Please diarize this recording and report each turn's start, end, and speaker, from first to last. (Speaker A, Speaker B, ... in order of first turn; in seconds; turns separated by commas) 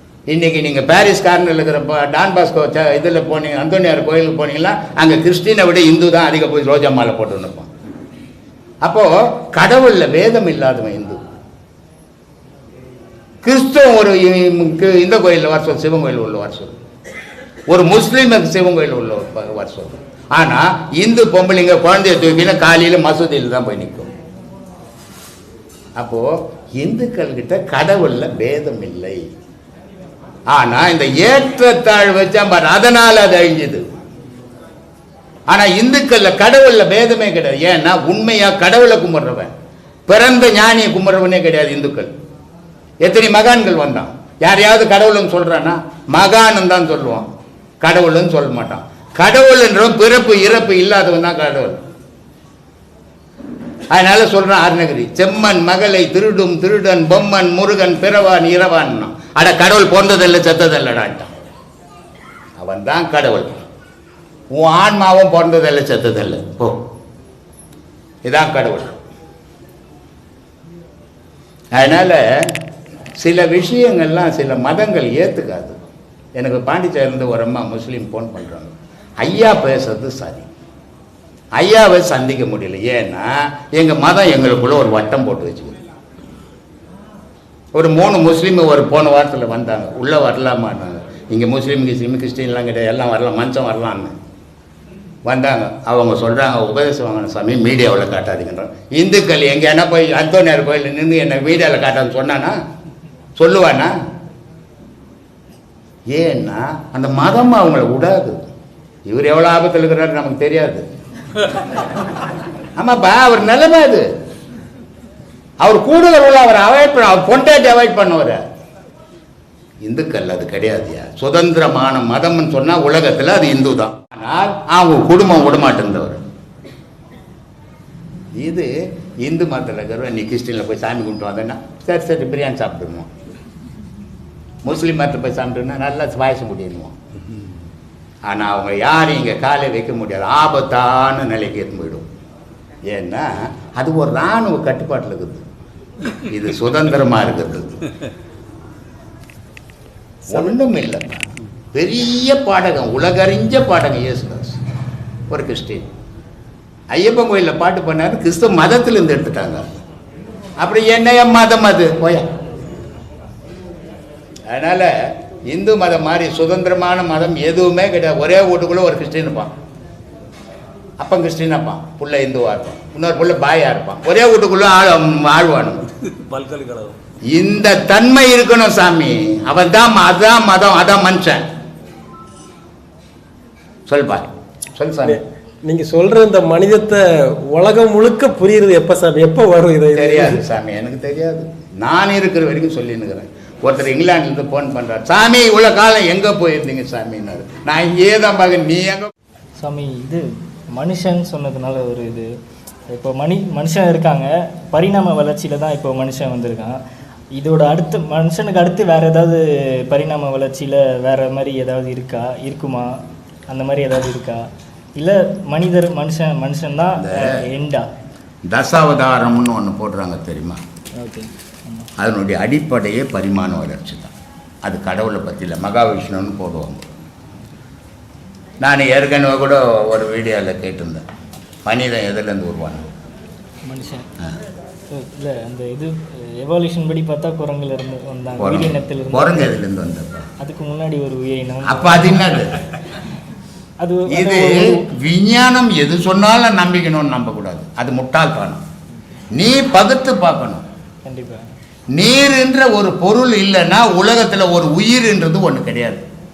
Speaker A: 0.3-7.7, Speaker A: 8.8-11.2, Speaker A: 13.4-16.8, Speaker A: 17.7-24.1, Speaker A: 25.9-29.3, Speaker A: 30.5-33.8, Speaker A: 35.5-39.5, Speaker A: 40.1-42.1, Speaker A: 43.0-47.3, Speaker A: 47.8-51.8, Speaker A: 53.9-61.3, Speaker A: 62.6-63.6, Speaker A: 64.5-66.8, Speaker A: 68.2-69.0, Speaker A: 71.7-72.6, Speaker A: 73.2-75.8, Speaker A: 76.3-80.5, Speaker A: 81.5-85.8, Speaker A: 87.8-94.1, Speaker A: 95.2-102.6, Speaker A: 103.4-103.9, Speaker A: 106.1-108.4, Speaker A: 109.0-110.8, Speaker A: 112.8-114.1, Speaker A: 115.6-118.4, Speaker A: 119.8-126.2, Speaker A: 128.3-133.1, Speaker A: 134.6-136.9, Speaker A: 138.2-142.1, Speaker A: 142.9-145.4, Speaker A: 146.2-147.8, Speaker A: 150.3-154.6, Speaker A: 155.3-155.9, Speaker A: 156.9-159.8, Speaker A: 160.6-162.3, Speaker A: 164.5-169.5, Speaker A: 171.0-175.9, Speaker B: 176.3-176.9, Speaker A: 177.3-181.4, Speaker A: 183.9-185.2, Speaker B: 185.0-190.4, Speaker A: 189.9-199.1, Speaker C: 199.6-202.3, Speaker C: 202.9-206.8, Speaker C: 207.3-217.9, Speaker A: 216.9-217.4, Speaker A: 218.4-220.6, Speaker C: 221.0-221.9, Speaker A: 222.0-224.1, Speaker A: 224.6-226.9, Speaker A: 228.6-231.0, Speaker A: 231.6-232.9, Speaker C: 233.7-234.1, Speaker C: 234.9-239.5, Speaker A: 238.4-240.3, Speaker C: 240.4-242.3, Speaker A: 241.6-242.7, Speaker C: 243.8-244.9, Speaker A: 244.1-248.6, Speaker A: 249.3-250.7, Speaker C: 251.0-251.5, Speaker A: 251.9-256.1